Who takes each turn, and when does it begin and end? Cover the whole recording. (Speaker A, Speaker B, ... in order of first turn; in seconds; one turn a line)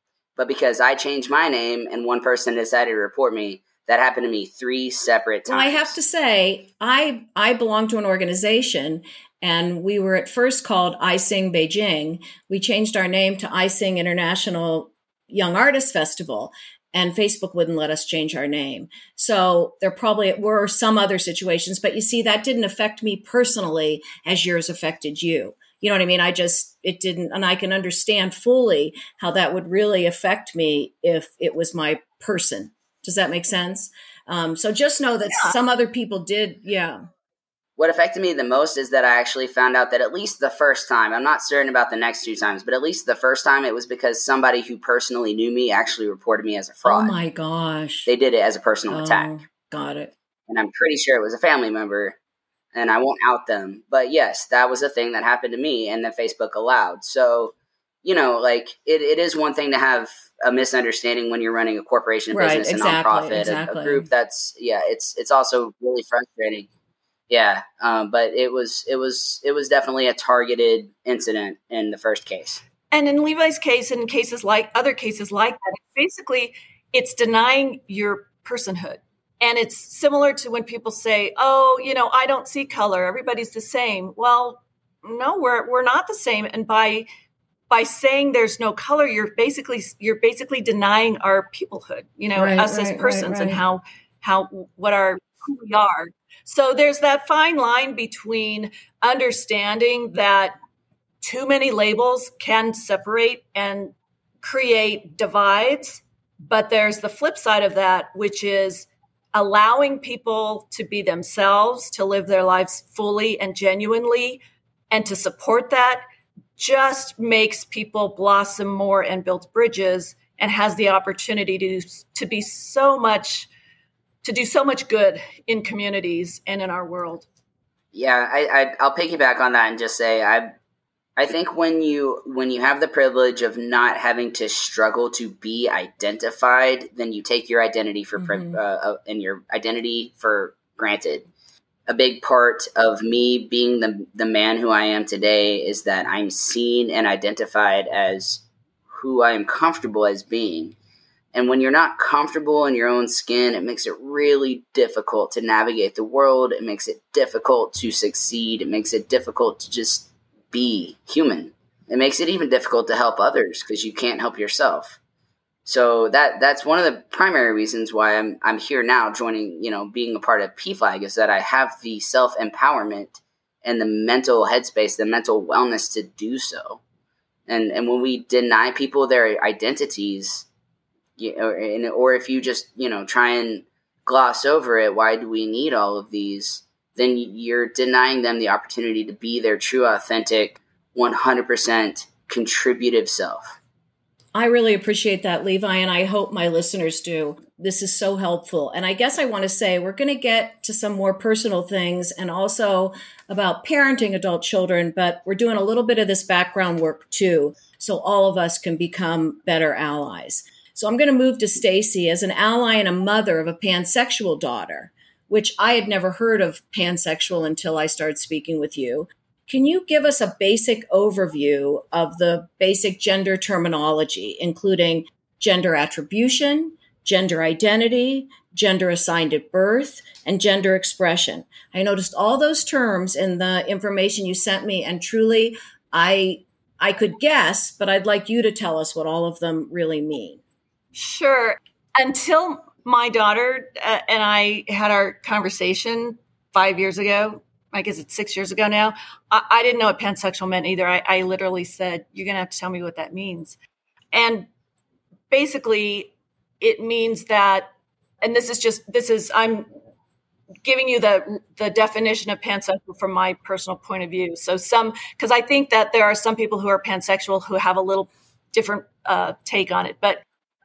Speaker A: 0.4-6.0
Speaker B: 5.5-37.0
Speaker A: 37.8-47.1
Speaker B: 46.9-48.1
Speaker A: 48.1-49.3
Speaker B: 48.9-50.1
Speaker A: 50.5-52.2
Speaker A: 52.7-66.7
Speaker B: 62.3-64.1
Speaker A: 67.3-72.6
Speaker C: 72.9-87.1
Speaker C: 87.7-100.6
Speaker B: 92.3-93.6
Speaker C: 101.2-116.0
Speaker C: 116.6-123.5
Speaker C: 124.2-127.3
Speaker A: 127.9-130.5
Speaker A: 131.2-141.3
Speaker B: 138.2-138.6
Speaker A: 141.9-150.8
Speaker A: 151.3-165.0
Speaker A: 165.7-176.8
Speaker A: 177.5-180.5
Speaker A: 181.2-193.6
Speaker B: 194.3-240.4
Speaker C: 240.9-253.6
Speaker C: 254.1-254.5
Speaker C: 255.3-257.7
Speaker C: 258.2-259.7
Speaker C: 260.6-270.2